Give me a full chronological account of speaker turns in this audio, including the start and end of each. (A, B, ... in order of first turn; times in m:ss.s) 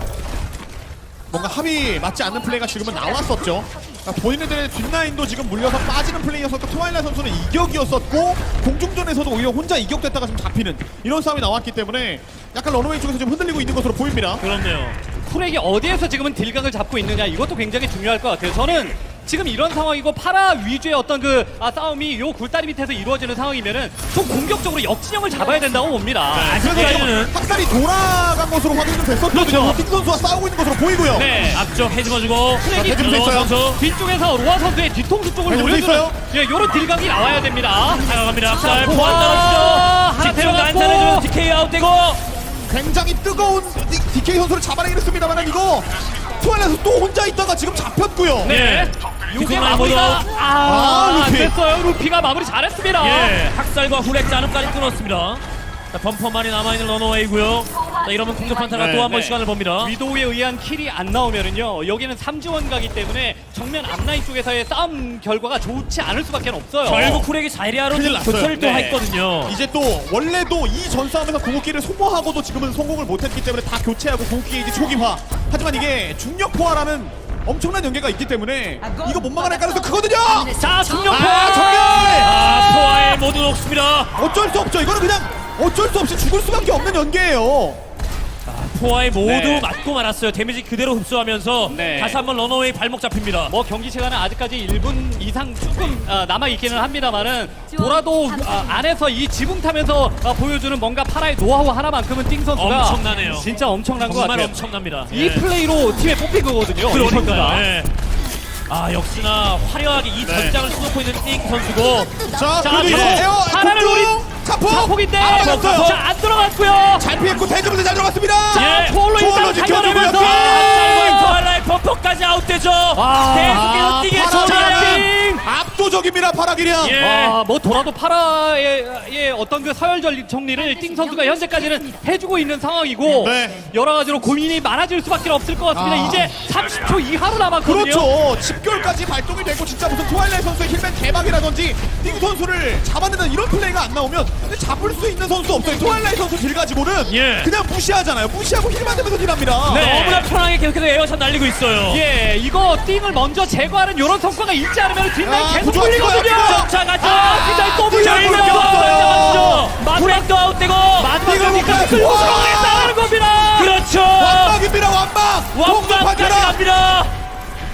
0:01.3-0:14.4 A
0:14.4-0:15.0 B
0:15.2-0:26.9 C
0:26.3-0:31.4 A
0:26.4-0:27.3 B
0:29.3-0:29.8 C
0:31.1-0:31.6 C
0:31.4-0:33.8 B
0:32.6-0:41.3 C
0:32.7-0:33.6 A
0:35.5-0:36.2 A
0:38.0-0:42.2 B
0:42.6-0:48.5 A
0:48.4-0:50.3 B
0:48.4-0:53.4 C
0:50.6-0:51.6 A
0:53.0-0:59.9 B
0:58.8-1:07.3 C
1:06.8-1:09.6 B
1:07.9-1:08.6 A
1:08.5-1:09.0 C
1:09.5-1:23.2 A
1:20.5-1:22.1 C
1:21.0-1:24.1 B
1:24.2-1:27.8 A
1:28.5-1:33.5 B
1:29.2-1:29.7 C
1:31.7-1:32.2 C
1:33.5-1:44.6 C
1:42.6-1:45.5 B
1:45.1-1:47.6 C
1:46.9-1:47.9 B
1:48.7-1:53.3 B
1:50.2-1:50.6 A
1:52.2-1:56.0 A
1:52.6-1:57.1 C
1:55.3-1:56.0 B
1:57.0-2:01.3 A
1:58.5-1:59.0 B
1:58.5-2:00.8 C
1:59.8-2:05.1 B
2:03.0-2:03.6 C
2:03.5-2:07.0 A
2:04.2-2:05.4 C
2:06.8-2:07.4 B
2:07.0-2:18.1 C
2:13.2-2:13.7 A
2:15.7-2:16.4 A
2:17.6-2:29.8 A
2:27.1-2:27.5 B
2:29.7-2:30.3 C
2:29.7-2:32.0 B
2:31.9-2:39.0 C
2:35.2-2:39.7 A
2:36.0-2:42.3 B
2:39.8-2:40.3 C
2:41.0-2:43.8 C
2:41.2-2:43.0 A
2:43.5-2:44.6 B
2:44.2-2:46.6 A
2:45.5-2:47.1 B